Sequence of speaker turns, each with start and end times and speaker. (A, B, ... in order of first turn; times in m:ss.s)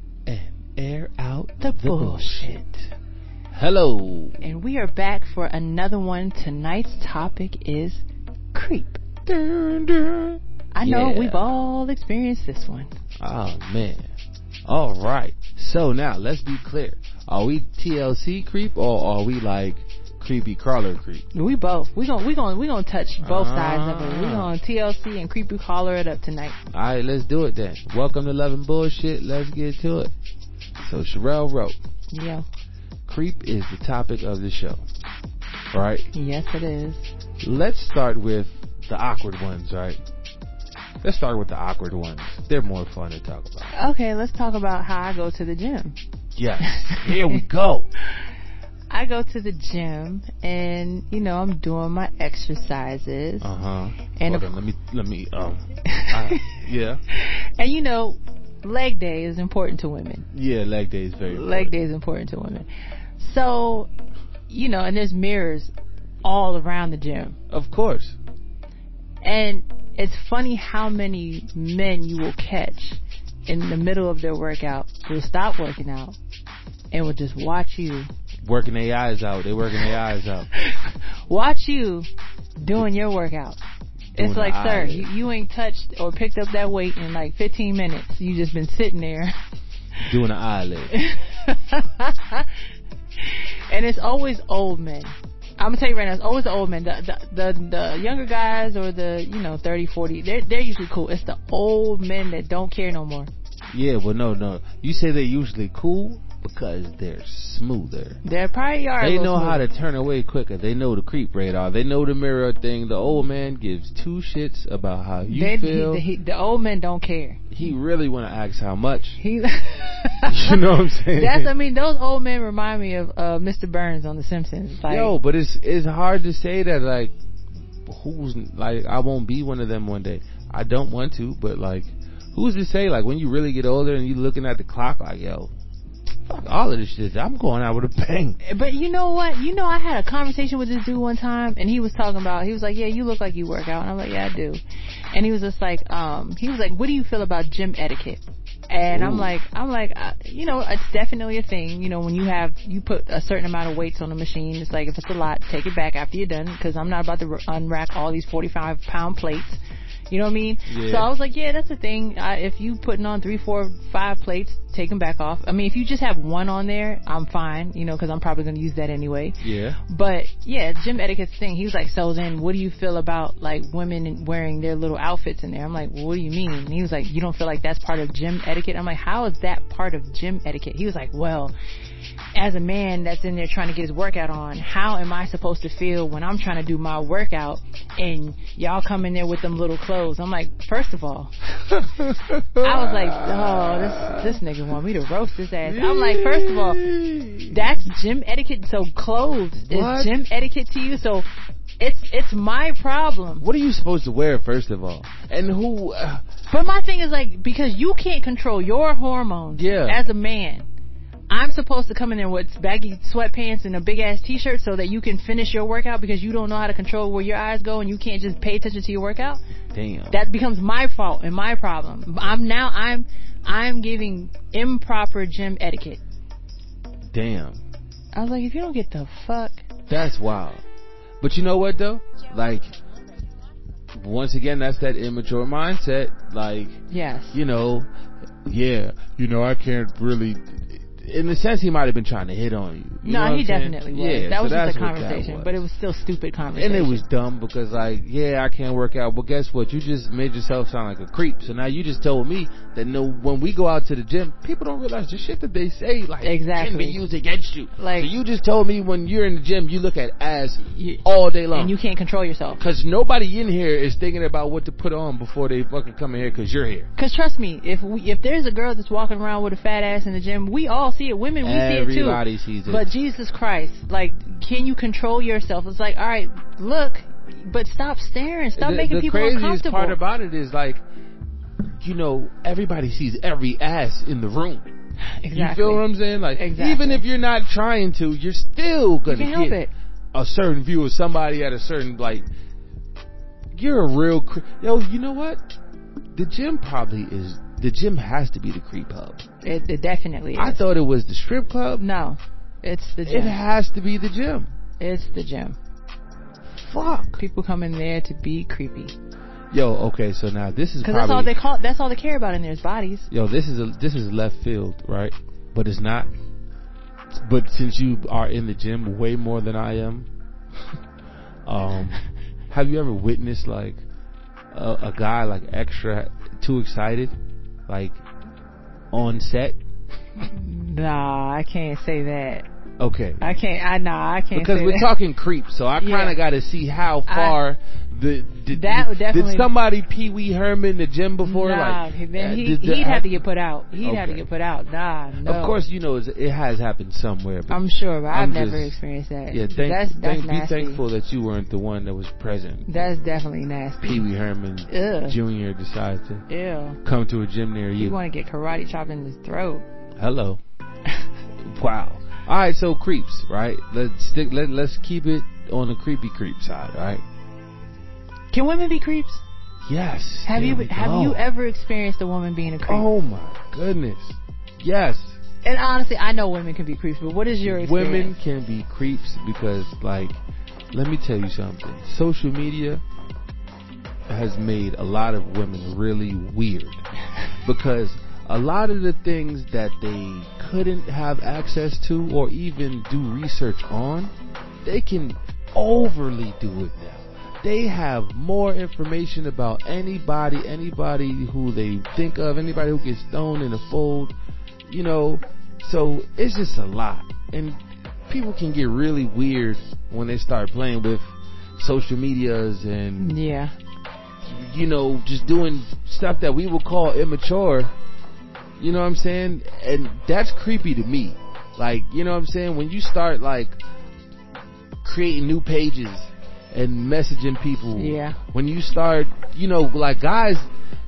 0:00.2-0:02.9 A
0:01.6-0:02.6 B
0:03.5-0:04.4 A
0:04.4-0:08.0 B
0:08.5-0:09.0 B
0:09.2-0:11.5 A
0:10.7-0:12.9 B
0:13.2-0:14.1 A
0:14.7-0:21.2 A
0:21.3-0:26.6 B
0:23.2-0:24.5 A
0:26.7-0:30.1 A
0:30.8-0:31.8 A
0:32.1-0:32.4 B
0:33.0-0:34.8 A
0:35.7-0:36.1 A
0:36.1-0:37.1 B
0:37.4-0:40.0 A
0:41.0-0:43.7 A
0:43.7-0:46.0 B
0:46.4-0:47.9 A
0:46.6-0:47.4 B
0:48.9-0:53.5 B
0:53.4-0:57.0 A
0:54.2-0:54.6 B
0:55.8-0:56.6 B
0:57.1-1:00.3 B
1:00.3-1:01.7 A
1:01.3-1:02.7 B
1:03.2-1:03.9 B
1:04.5-1:05.7 B
1:06.2-1:07.4 B
1:07.5-1:08.2 A
1:09.2-1:16.2 B
1:16.9-1:18.1 B
1:18.4-1:20.5 A
1:20.5-1:23.6 B
1:24.1-1:25.1 A
1:24.2-1:29.3 B
1:30.0-1:30.9 A
1:30.9-1:32.5 B
1:33.2-1:43.3 B
1:43.7-1:48.2 A
1:48.2-1:49.6 B
1:49.0-1:56.0 A
1:55.2-1:57.5 B
1:57.5-1:59.2 A
1:59.2-2:05.1 B
2:00.2-2:01.5 A
2:04.9-2:07.1 A
2:07.8-2:15.5 A
2:16.3-2:18.4 A
2:18.4-2:24.6 B
2:25.1-2:39.6 B
2:28.9-2:29.3 A
2:40.1-3:01.5 B
2:40.7-2:41.1 A
2:49.4-2:49.8 A
3:02.3-3:16.8 B
3:11.7-3:14.4 A
3:15.6-3:17.6 A
3:17.5-3:21.3 B
3:19.6-3:20.1 A
3:21.8-3:23.4 B
3:23.4-3:26.2 A
3:26.5-3:30.6 B
3:29.5-3:30.0 A
3:31.3-3:39.4 B
3:39.7-3:40.2 A
3:40.1-3:46.0 B
3:47.1-3:47.6 A
3:48.1-3:49.7 B
3:49.9-3:50.6 A
3:51.2-3:52.7 A
3:54.0-3:56.8 A
3:56.9-3:57.4 B
3:57.3-3:57.9 A
3:58.4-4:05.6 A
4:03.0-4:07.0 B
4:06.6-4:21.7 A
4:16.2-4:17.0 B
4:17.8-4:18.1 B
4:20.6-4:22.6 B
4:22.6-4:26.9 A
4:27.0-4:40.0 B
4:31.4-4:32.9 A
4:38.6-4:40.8 A
4:41.8-4:44.7 A
4:45.2-4:47.0 B
4:45.3-4:49.6 A
4:49.1-4:49.7 B
4:50.1-4:52.2 A
4:53.5-4:55.4 A
4:56.1-4:59.2 A
4:59.4-5:00.6 B
5:00.4-5:01.8 A
5:01.8-5:03.4 B
5:03.0-5:04.5 A
5:04.8-5:05.6 B
5:06.6-5:07.2 A
5:07.2-5:08.9 B
5:09.5-5:11.3 A
5:10.8-5:13.1 B
5:13.1-5:16.1 A
5:17.1-5:20.1 A
5:21.4-5:22.0 A
5:22.5-5:23.8 A
5:24.5-5:27.1 A
5:27.7-5:28.0 A
5:28.9-5:29.6 A
5:30.2-5:32.5 B
5:32.8-5:33.2 A
5:33.2-5:34.9 B
5:34.3-5:43.2 A
5:35.8-5:36.2 B
5:37.1-5:37.4 B
5:38.5-5:39.5 B
5:41.2-5:45.6 B
5:43.8-5:44.2 A
5:45.2-5:48.7 A
5:47.5-5:50.8 B
5:49.3-5:52.9 A
5:52.7-5:54.0 B
5:53.8-5:56.2 A
5:54.7-5:55.2 B
5:56.3-5:56.8 B
5:56.8-5:58.0 A
5:57.8-5:59.6 B
6:00.0-6:00.4 A
6:01.4-6:07.0 A
6:08.3-6:09.2 B
6:09.6-6:11.2 A
6:10.2-6:12.8 B
6:12.6-6:15.2 A
6:15.4-6:18.2 B
6:17.4-6:20.2 A
6:20.7-6:22.8 A
6:24.1-6:26.8 A
6:27.4-6:34.1 A
6:34.6-6:44.1 A
6:44.7-6:47.6 A
6:48.1-6:53.2 A
6:53.0-6:53.5 B
6:54.2-6:57.7 A
6:58.6-7:03.6 A
7:04.8-7:10.5 A
7:07.8-7:08.2 B